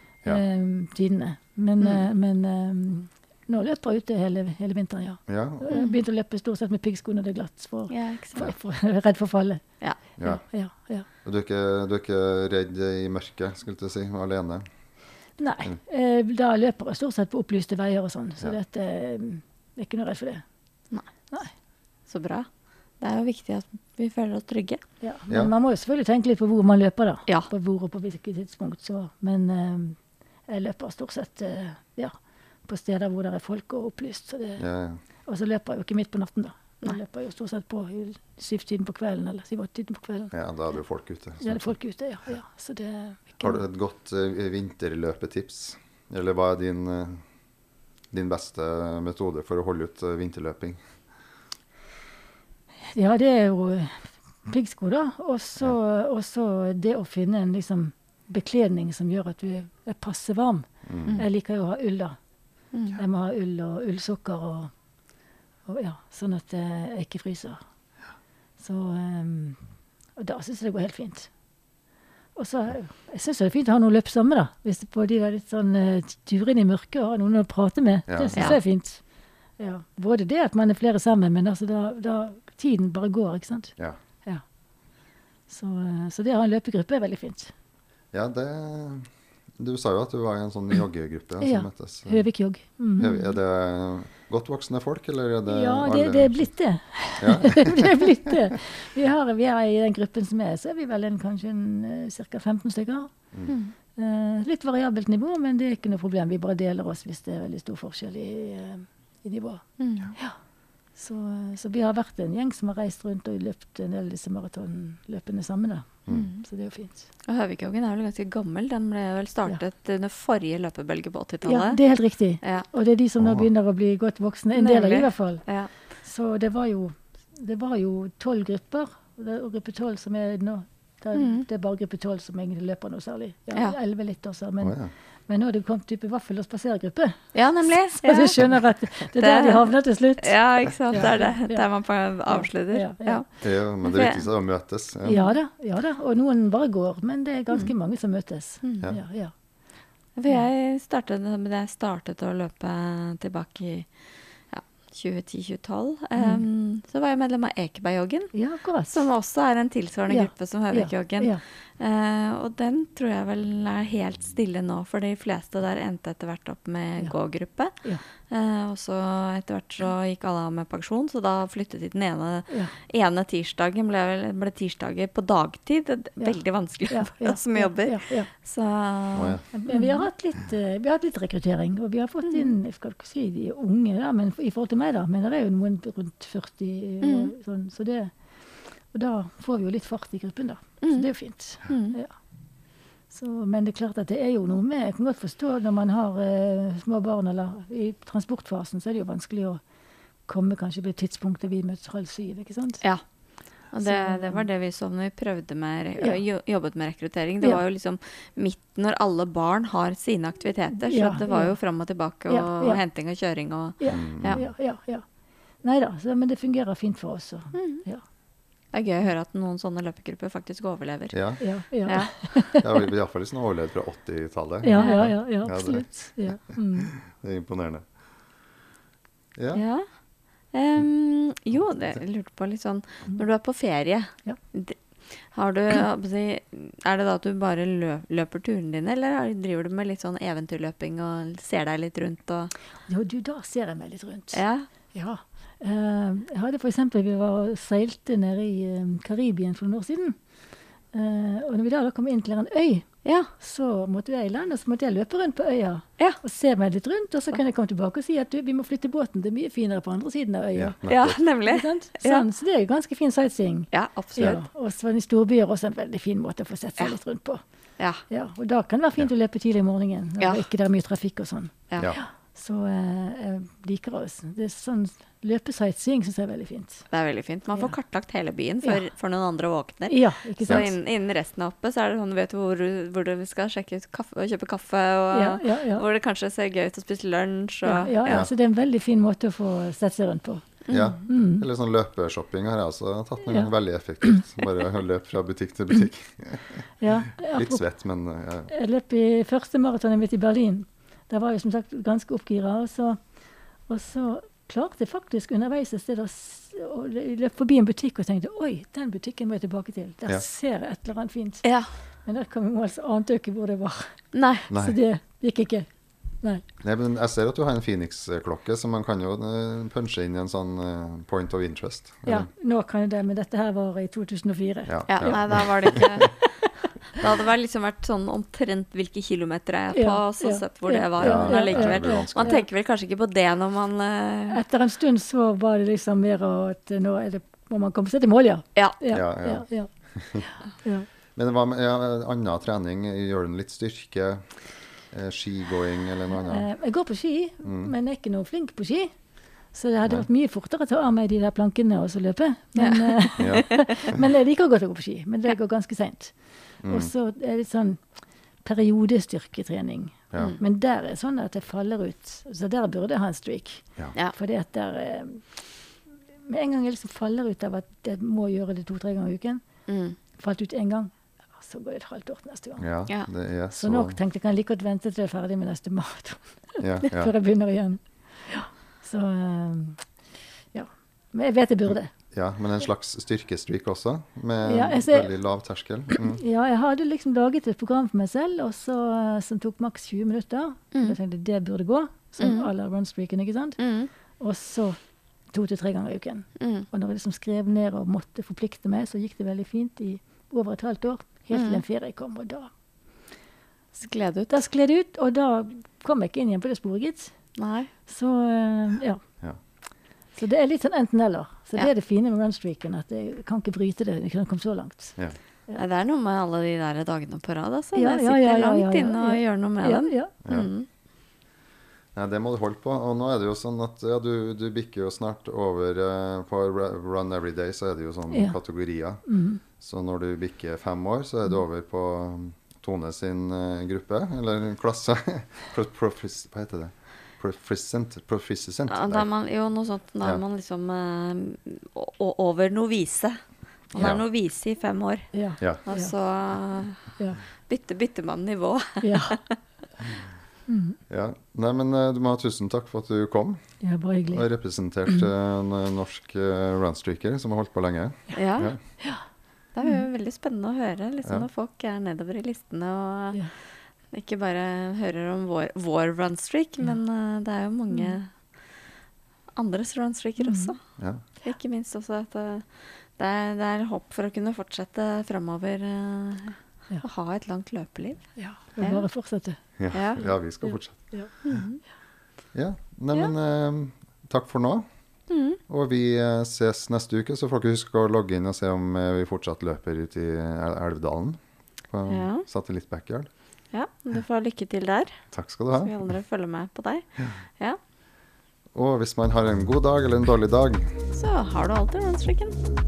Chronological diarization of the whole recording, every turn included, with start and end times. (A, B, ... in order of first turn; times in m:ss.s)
0:00.2-0:09.6 A
0:05.3-0:05.7 B
0:05.7-0:06.0 C
0:07.9-0:08.5 C
0:10.2-0:11.1 A
0:11.2-0:14.6 B
0:15.4-0:20.4 A
0:22.1-0:22.5 C
0:23.0-0:24.8 C
0:25.0-0:32.1 A
0:32.7-0:34.6 A
0:34.6-0:35.0 B
0:35.2-0:40.3 A
0:40.3-0:41.7 B
0:41.4-0:43.6 A
0:43.4-0:47.2 B
0:48.1-0:50.8 B
0:52.9-1:02.2 A
1:00.8-1:01.2 B
1:02.7-1:03.0 C
1:03.0-1:04.7 A
1:05.6-1:07.6 A
1:08.6-1:09.6 A
1:10.2-1:11.3 A
1:12.4-1:19.0 A
1:18.1-1:18.6 B
1:19.6-1:23.7 A
1:25.5-1:27.5 A
1:28.1-1:29.0 B
1:29.6-1:32.3 B
1:31.4-1:33.3 A
1:33.0-1:36.4 B
1:35.5-1:43.1 A
1:37.2-1:38.1 B
1:43.5-1:43.7 C
1:44.0-1:49.6 A
1:49.8-1:50.1 C
1:50.9-1:57.0 A
1:56.1-1:56.4 C
1:57.2-2:01.8 C
2:01.4-2:05.4 A
2:02.4-2:02.7 C
2:03.2-2:03.5 B
2:04.5-2:05.7 C
2:06.0-2:14.7 A
2:11.1-2:11.4 C
2:14.6-2:14.9 B
2:15.3-2:20.4 A
2:17.3-2:18.5 C
2:19.2-2:23.2 C
2:20.9-2:21.6 A
2:22.3-2:23.2 A
2:23.4-2:25.2 B
2:23.8-2:24.2 C
2:25.0-2:29.3 A
2:28.6-2:28.9 C
2:30.2-2:33.9 C
2:34.5-2:38.3 C
2:36.2-2:36.4 A
2:38.3-2:39.1 A
2:38.9-2:47.8 C
2:40.1-2:41.4 A
2:48.3-3:00.0 C
2:56.9-2:58.3 A
2:59.1-2:59.4 B
2:59.5-3:08.1 A
3:07.0-3:07.3 C
3:08.9-3:12.1 A
3:10.8-3:11.1 C
3:11.6-3:12.0 C
3:13.1-3:19.6 A
3:20.3-3:22.8 A
3:23.7-3:34.4 C
3:23.8-3:24.4 A
3:30.8-3:31.5 A
3:32.3-3:32.8 A
3:33.8-3:35.0 A
3:33.9-3:34.4 B
3:35.6-3:38.0 A
3:37.5-3:37.8 C
3:38.7-3:42.5 C
3:41.1-3:41.4 B
3:41.4-3:42.6 A
3:42.6-3:45.9 B
3:44.6-3:46.9 A
3:44.8-3:45.0 C
3:46.8-3:47.8 B
3:49.4-3:49.6 B
3:49.5-3:49.8 C
3:50.5-4:02.5 C
4:02.9-4:04.4 A
4:04.3-4:04.7 C
4:04.9-4:10.2 A
4:10.9-4:20.8 A
4:13.0-4:13.3 C
4:20.6-4:21.2 B
4:20.9-4:22.2 C
4:21.4-4:27.4 A
4:23.7-4:24.4 C
4:28.1-4:36.8 A
4:30.2-4:30.4 C
4:36.9-4:48.2 C
4:39.9-4:40.7 A
4:45.1-4:45.8 A
4:47.6-4:51.4 A
4:48.0-4:48.3 B
4:50.7-4:50.9 C
4:50.7-4:58.5 B
4:56.8-4:57.6 A
4:58.5-5:03.0 A
5:03.7-5:11.4 A
5:11.4-5:11.7 C
5:12.0-5:15.7 A
5:14.1-5:14.4 C
5:14.5-5:14.8 B
5:16.6-5:22.3 B
5:22.0-5:25.5 A
5:24.7-5:26.1 B
5:24.9-5:26.2 C
5:26.9-5:34.4 C
5:29.7-5:32.4 A
5:31.0-5:32.3 B
5:34.3-5:40.8 A
5:38.9-5:40.2 B
5:41.2-5:44.2 B
5:44.9-5:46.5 B
5:46.2-5:48.9 A
5:47.4-5:47.7 B
5:49.5-5:56.1 A
5:52.6-5:53.6 C
5:53.2-5:54.0 B
5:56.6-5:56.9 B
5:56.6-5:57.8 A
5:58.4-6:05.4 A
6:00.1-6:00.4 B
6:06.2-6:09.4 A
6:09.7-6:10.0 C
6:10.1-6:12.6 A
6:12.6-6:14.0 B
6:13.5-6:19.8 A
6:16.6-6:17.1 B
6:20.5-6:21.9 A
6:22.1-6:26.2 B
6:24.4-6:25.1 A
6:25.9-6:33.6 A
6:32.2-6:32.5 C
6:33.6-6:33.9 C
6:34.2-6:34.8 A
6:35.3-6:42.5 A
6:36.4-6:36.7 C
6:41.3-6:41.6 C
6:43.8-6:44.4 C
6:44.3-6:47.1 A
6:47.4-6:47.7 C
6:47.9-6:49.0 A
6:50.2-6:55.0 A
6:55.6-7:00.7 C
6:57.8-7:00.1 A
7:00.2-7:00.5 B
7:01.9-7:09.0 B
7:08.1-7:08.4 A
7:09.0-7:09.4 A
7:09.6-7:19.1 B
7:18.7-7:23.2 C
7:23.7-7:25.1 C
7:23.8-7:24.0 B
7:25.1-7:25.9 A
7:25.6-7:29.3 C
7:28.8-7:29.2 A
7:30.5-7:30.8 A
7:30.9-7:33.4 B
7:33.6-7:34.2 A
7:34.1-7:38.6 B
7:38.1-7:38.5 C
7:39.5-7:43.2 C
7:43.9-7:48.1 C
7:49.3-7:50.6 C
7:50.2-7:50.5 A
7:51.2-7:58.8 C
7:58.2-7:59.4 A
7:59.6-8:00.8 B
7:59.7-8:00.0 C
8:01.2-8:01.6 C
8:02.3-8:04.6 B
8:05.1-8:05.4 C
8:05.5-8:11.2 B
8:11.7-8:13.1 B
8:11.9-8:12.2 C
8:13.5-8:17.6 C
8:15.1-8:15.7 B
8:18.5-8:20.7 B
8:20.9-8:22.4 C